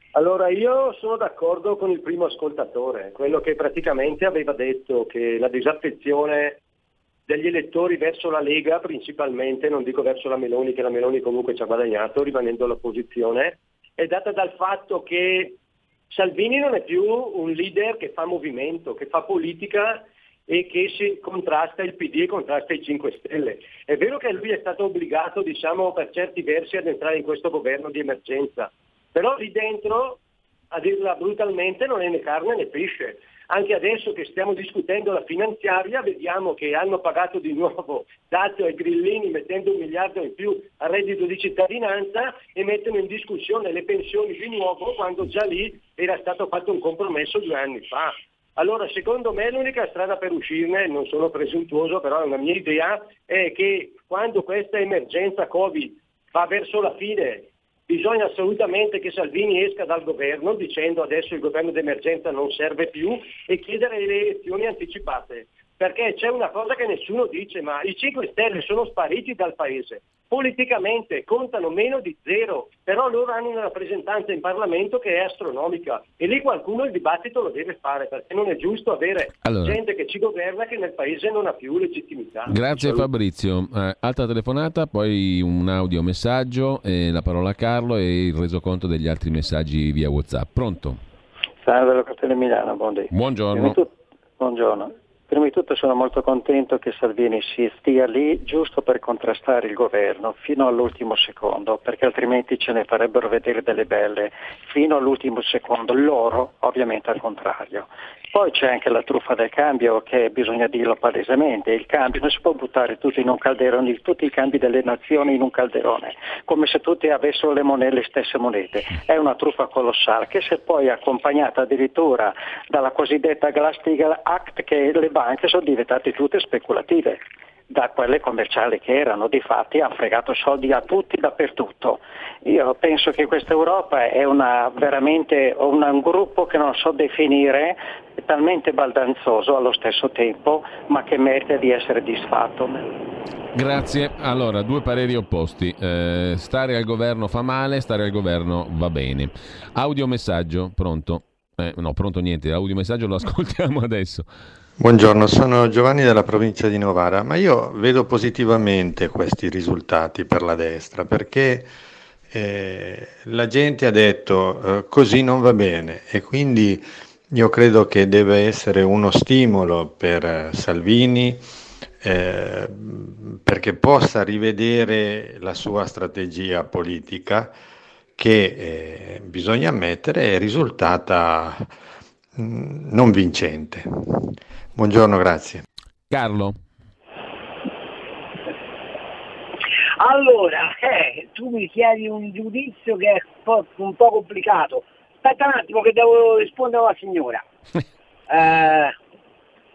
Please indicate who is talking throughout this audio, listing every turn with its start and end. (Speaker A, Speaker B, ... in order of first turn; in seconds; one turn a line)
Speaker A: 0.1-6.6
Speaker A: 7.3-15.6
Speaker A: 16.1-30.2
Speaker A: 30.7-83.1
Speaker B: 79.4-79.8
Speaker B: 82.5-91.0
Speaker C: 91.6-127.2
Speaker B: 93.1-93.8
Speaker C: 127.7-142.9
Speaker B: 143.5-154.3
Speaker D: 154.8-161.7
Speaker D: 162.3-171.4
Speaker D: 172.0-177.6
Speaker D: 178.2-181.7
Speaker D: 182.3-185.6
Speaker B: 186.1-186.6
Speaker E: 190.0-197.4
Speaker E: 198.3-198.9